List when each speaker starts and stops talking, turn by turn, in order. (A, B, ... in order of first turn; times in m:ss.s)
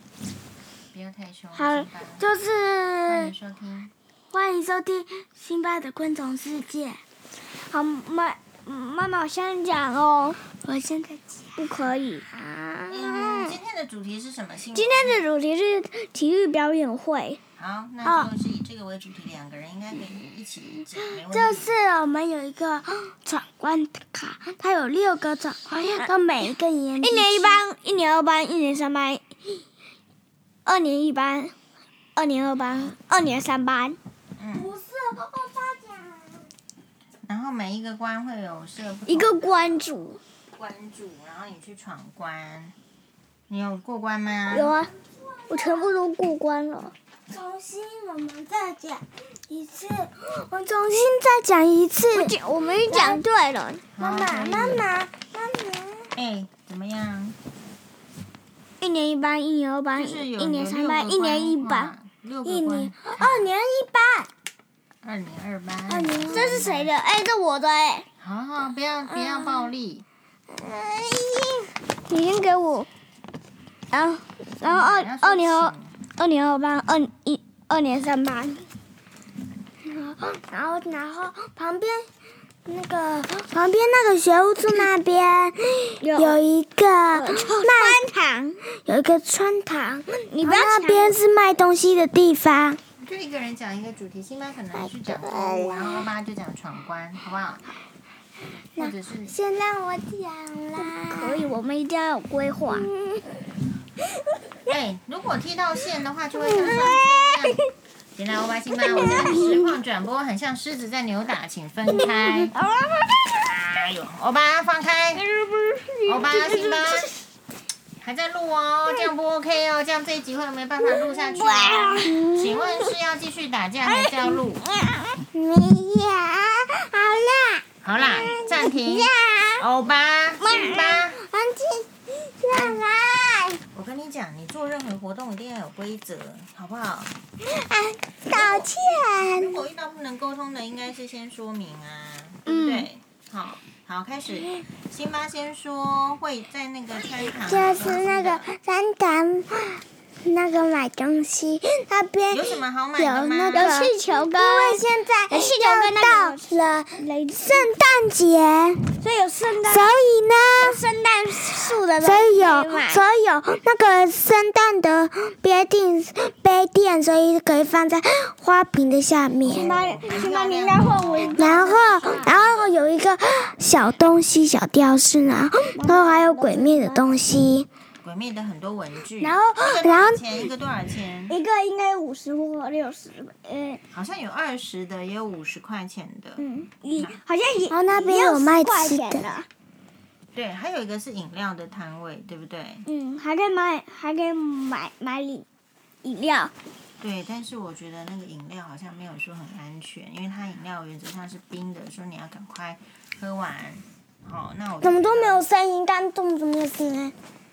0:00.9-0:02.3 A
0:01.5-0:03.3 B
0:03.0-0:03.9 A
0:04.3-0:07.0 B
0:07.6-0:10.4 C
0:10.6-0:11.7 B
0:11.6-0:12.3 C
0:12.3-0:13.5 B
0:12.9-0:15.3 A
0:14.7-0:17.4 C
0:17.6-0:21.7 A
0:18.0-0:18.3 B
0:21.0-0:27.6 B
0:27.0-0:29.2 C
0:30.6-0:31.5 C
0:32.2-0:34.0 C
0:34.4-0:34.8 A
0:34.5-0:36.5 B
0:37.3-0:39.9 A
0:39.1-0:40.2 C
0:40.6-0:42.8 A
0:43.5-0:44.8 A
0:44.5-0:44.9 C
0:45.4-0:45.9 B
0:45.5-0:46.9 C
0:47.3-0:52.3 B
0:52.1-0:53.8 C
0:52.9-0:53.2 B
0:53.9-0:54.9 A
0:54.0-0:56.2 B
0:56.1-0:57.4 A
0:58.8-1:01.9 C
1:00.0-1:03.5 A
1:02.4-1:04.3 B
1:05.0-1:06.9 A
1:05.9-1:06.6 B
1:06.3-1:08.1 C
1:08.2-1:10.0 A
1:09.4-1:09.7 C
1:10.6-1:11.7 B
1:12.1-1:12.9 C
1:13.9-1:18.6 C
1:14.7-1:16.0 A
1:19.9-1:22.1 B
1:22.7-1:28.0 B
1:26.0-1:26.4 C
1:27.1-1:28.6 C
1:28.8-1:32.8 B
1:30.3-1:31.2 C
1:33.0-1:37.7 A
1:34.8-1:36.0 B
1:38.8-1:39.4 A
1:38.8-1:41.6 B
1:41.1-1:42.9 C
1:42.7-1:43.4 B
1:44.7-1:47.6 A
1:46.5-1:47.0 B
1:46.6-1:47.7 C
1:48.2-1:52.6 A
1:48.9-1:49.6 B
1:48.9-1:49.7 C
1:52.5-1:53.4 C
1:53.2-1:55.2 A
1:55.2-1:57.1 C
1:56.0-1:57.1 A
1:58.0-2:04.6 A
2:00.9-2:02.2 C
2:02.0-2:02.9 B
2:03.8-2:05.2 C
2:05.3-2:09.5 B
2:07.8-2:11.2 A
2:10.4-2:11.0 C
2:11.1-2:13.6 B
2:12.5-2:12.8 A
2:13.7-2:17.2 A
2:17.4-2:19.6 B
2:18.3-2:28.5 A
2:22.5-2:22.9 B
2:27.1-2:39.0 B
2:32.3-2:33.8 A
2:33.5-2:37.7 C
2:39.0-2:39.9 C
2:39.7-2:40.8 B
2:40.6-2:43.0 C
2:42.0-2:49.8 B
2:49.4-2:52.8 A
2:49.4-2:52.3 C
2:51.3-2:57.7 B
2:55.7-2:57.1 C
2:58.0-3:01.4 A
2:59.2-3:00.2 B
3:01.3-3:03.8 C
3:03.9-3:06.4 A
3:06.4-3:09.5 C
3:06.9-3:07.2 A
3:07.7-3:09.3 B
3:10.3-3:12.8 A
3:12.8-3:15.5 C
3:16.0-3:16.5 C
3:17.0-3:25.5 A
3:24.8-3:27.1 B